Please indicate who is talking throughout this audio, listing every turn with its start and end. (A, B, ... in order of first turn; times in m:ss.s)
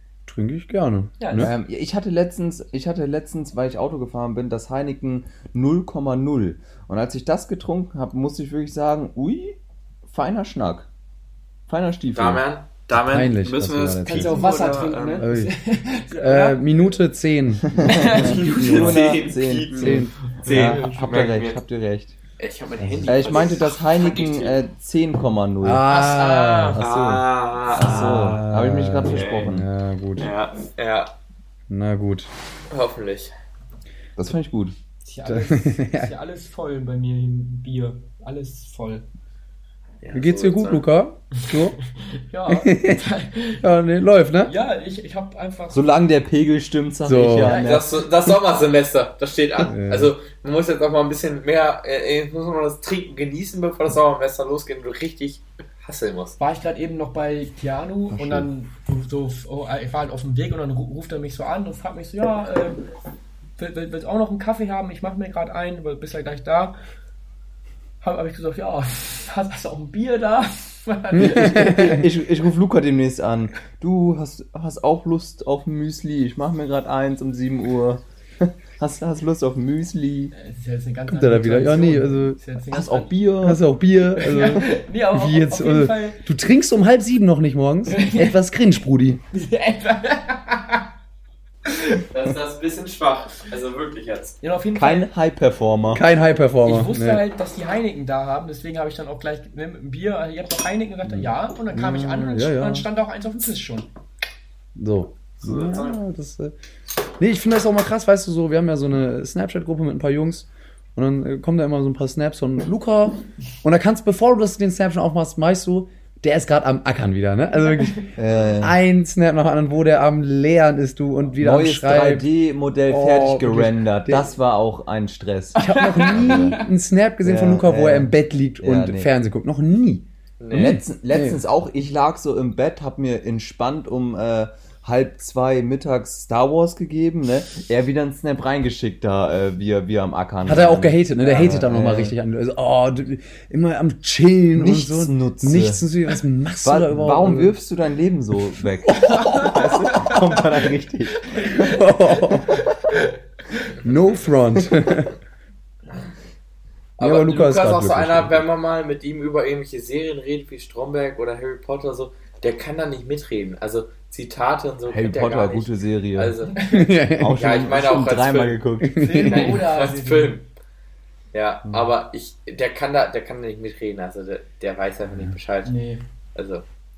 0:00.3-0:01.5 A
0:01.2-0:01.5 B
0:01.4-0:10.9 C
0:11.7-0:12.4 C
0:12.1-0:15.3 D
0:12.9-0:14.4 A
0:14.0-0:16.7 B
0:15.2-0:15.5 A
0:16.2-0:19.2 A
0:17.7-0:22.1 C
0:17.8-0:18.9 B
0:18.2-0:21.6 D
0:19.7-0:20.1 A
0:20.5-0:21.1 B
0:22.4-0:24.6 D
0:22.8-0:23.3 A
0:23.0-0:25.8 C
0:25.6-0:26.8 A
0:25.9-0:26.8 B
0:26.7-0:28.3 D
0:26.8-0:29.7 C
0:27.8-0:28.0 B
0:27.8-0:30.3 A
0:29.0-0:29.6 D
0:30.2-0:31.1 D
0:31.7-0:32.3 A
0:32.7-0:33.3 D
0:34.2-0:34.7 C
0:35.0-0:39.1 B
0:35.2-0:36.1 A
0:40.0-0:40.8 D
0:40.1-0:41.8 A
0:42.0-0:43.6 B
0:42.5-0:43.0 A
0:43.6-0:44.5 A
0:44.4-0:46.0 B
0:45.7-0:47.9 C
0:47.0-0:47.6 A
0:47.4-0:47.9 B
0:47.5-0:56.4 D
0:49.6-0:50.1 A
0:56.4-1:02.8 B
0:58.2-0:58.4 C
1:03.6-1:06.8 B
1:08.0-1:12.0 B
1:11.1-1:12.1 A
1:11.2-1:20.3 C
1:20.3-1:23.2 B
1:21.1-1:22.4 A
1:22.7-1:23.6 C
1:23.4-1:29.2 A
1:24.1-1:26.2 B
1:27.9-1:28.3 B
1:29.3-1:30.9 B
1:32.1-1:34.4 D
1:34.4-1:35.1 B
1:34.7-1:36.0 C
1:35.9-1:37.2 A
1:36.6-1:43.9 B
1:41.0-1:42.9 A
1:44.8-1:46.5 A
1:45.4-1:46.0 D
1:47.2-2:02.3 A
1:58.2-1:58.8 C
2:01.4-2:06.6 C
2:02.9-2:04.3 A
2:05.6-2:06.6 B
2:05.6-2:11.4 A
2:07.2-2:09.1 C
2:10.4-2:10.8 D
2:10.5-2:22.2 C
2:20.4-2:27.5 A
2:24.5-2:25.8 C
2:26.6-2:31.5 C
2:28.9-2:29.6 A
2:28.9-2:30.4 B
2:31.3-2:33.7 B
2:31.5-2:32.7 A
2:33.8-2:35.1 A
2:37.0-2:46.7 D
2:37.0-2:38.4 A
2:44.9-2:46.4 C
2:46.5-2:47.0 B
2:46.6-2:47.4 A
2:47.2-2:49.2 C
2:47.4-2:48.6 D
2:48.8-2:49.6 A
2:49.0-2:50.4 B
2:49.2-2:50.4 D
2:51.3-2:55.7 D
2:55.6-2:56.0 B
2:56.3-2:56.6 D